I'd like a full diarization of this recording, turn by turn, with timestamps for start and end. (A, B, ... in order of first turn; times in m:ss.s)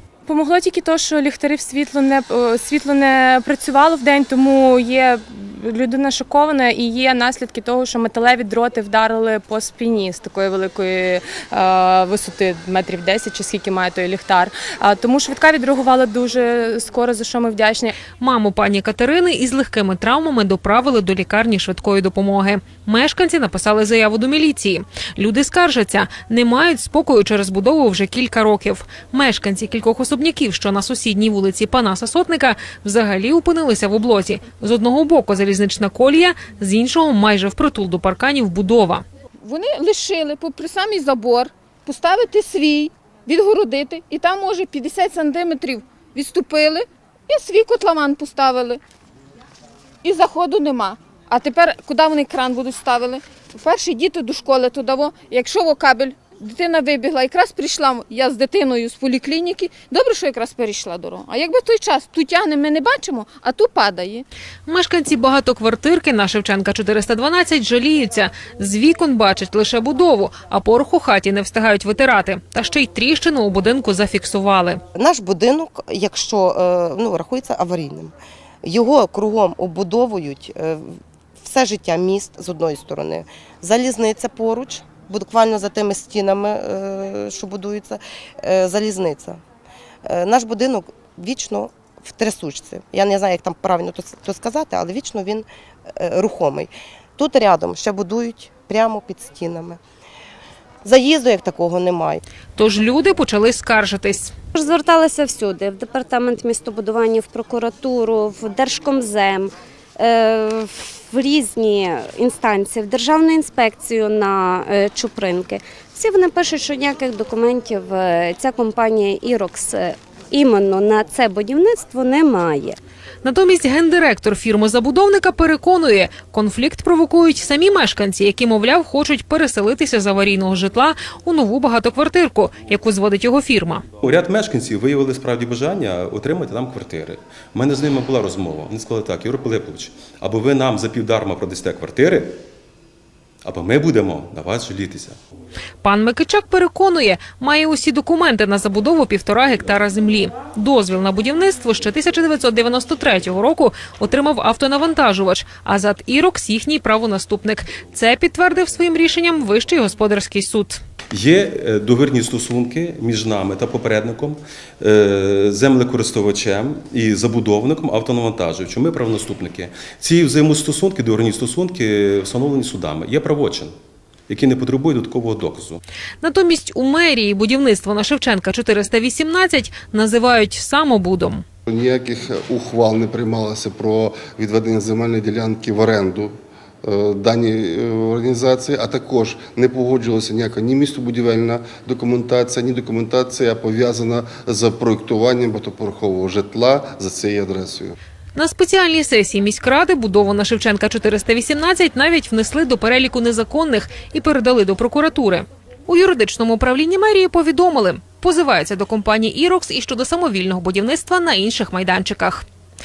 0:00.3-0:17.9 A
0:18.2-0:39.0 B
0:39.4-0:48.8 C
0:50.0-1:04.2 C
1:04.7-1:14.8 B
1:15.0-1:29.4 D
1:30.0-1:39.8 D
1:40.8-1:42.2 D
1:42.6-1:44.3 B
1:44.6-2:02.8 E
2:03.2-2:13.8 B
2:14.0-2:22.4 F
2:23.4-2:25.2 F
2:25.8-2:40.8 B
2:41.1-2:53.7 F
2:54.3-2:55.8 F
2:56.2-3:01.4 B
3:01.7-3:18.0 G
3:18.4-3:32.5 B